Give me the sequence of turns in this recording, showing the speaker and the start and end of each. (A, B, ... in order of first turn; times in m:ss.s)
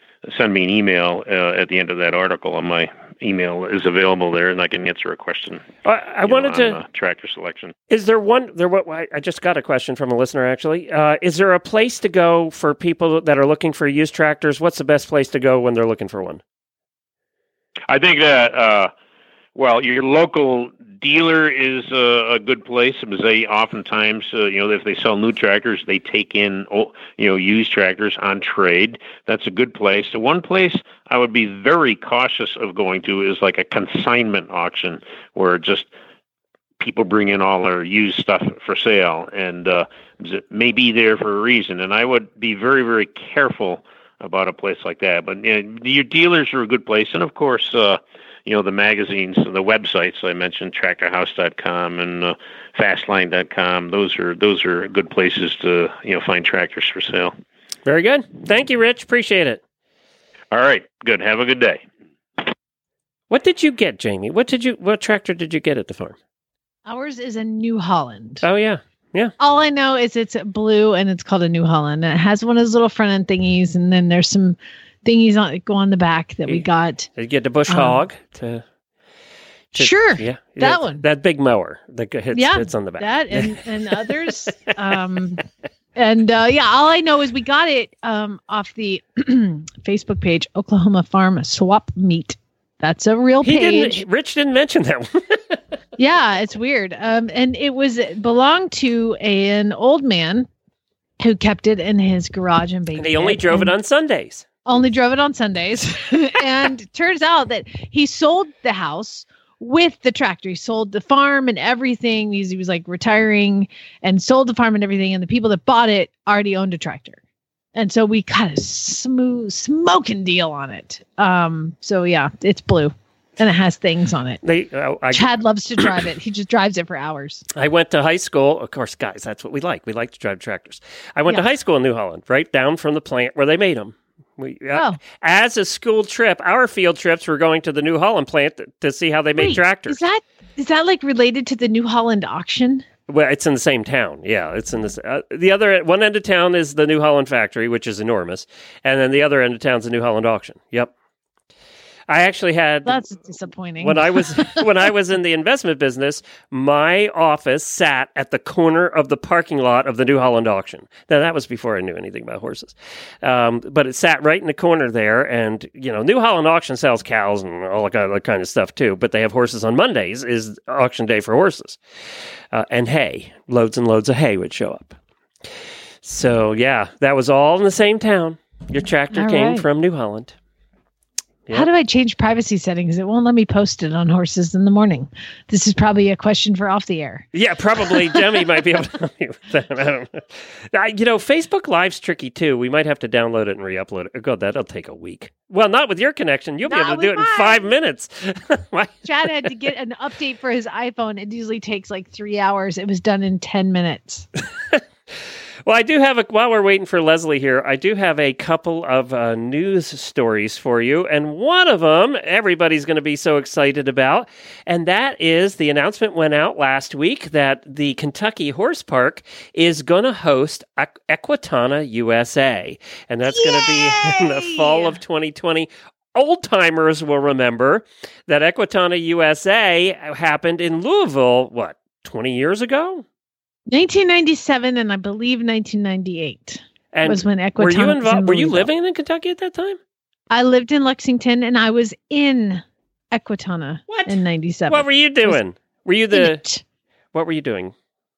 0:00.2-0:05.7 A
0:05.8-0:06.8 B
0:06.2-0:07.7 A
0:07.9-0:16.4 B
0:17.9-0:18.9 A
0:19.6-0:35.9 A
0:36.8-0:57.3 A
0:57.9-0:59.6 B
1:00.5-1:01.8 A
1:03.3-1:06.2 B
1:06.9-1:08.4 C
1:08.4-1:09.3 B
1:09.4-1:17.1 C
1:17.2-1:18.6 B
1:17.7-1:18.0 C
1:19.7-1:21.0 C
1:19.7-1:23.6 B
1:22.3-1:25.4 C
1:26.0-1:34.0 C
1:33.4-1:35.6 B
1:36.0-1:40.5 C
1:41.2-1:43.7 C
1:43.0-1:44.4 B
1:44.7-1:57.2 C
1:57.8-2:04.4 C
2:04.4-2:05.3 B
2:05.1-2:07.4 C
2:07.6-2:20.0 B
2:19.4-2:22.8 C
2:23.1-2:30.9 B
2:32.1-2:33.1 B
2:32.9-2:34.6 C
2:33.8-2:51.8 B
2:52.5-2:55.0 B
2:56.0-3:00.3 B
2:59.1-2:59.6 C
3:01.5-3:07.3 C
3:07.3-3:19.1 B
3:16.6-3:17.7 C
3:19.0-3:24.3 C
3:25.6-3:53.0 B
3:43.3-3:45.0 C
3:53.7-3:58.7 C
3:56.9-3:59.8 B
4:00.3-4:05.4 C
4:03.9-4:06.5 B
4:06.1-4:06.6 C
4:07.1-4:07.7 B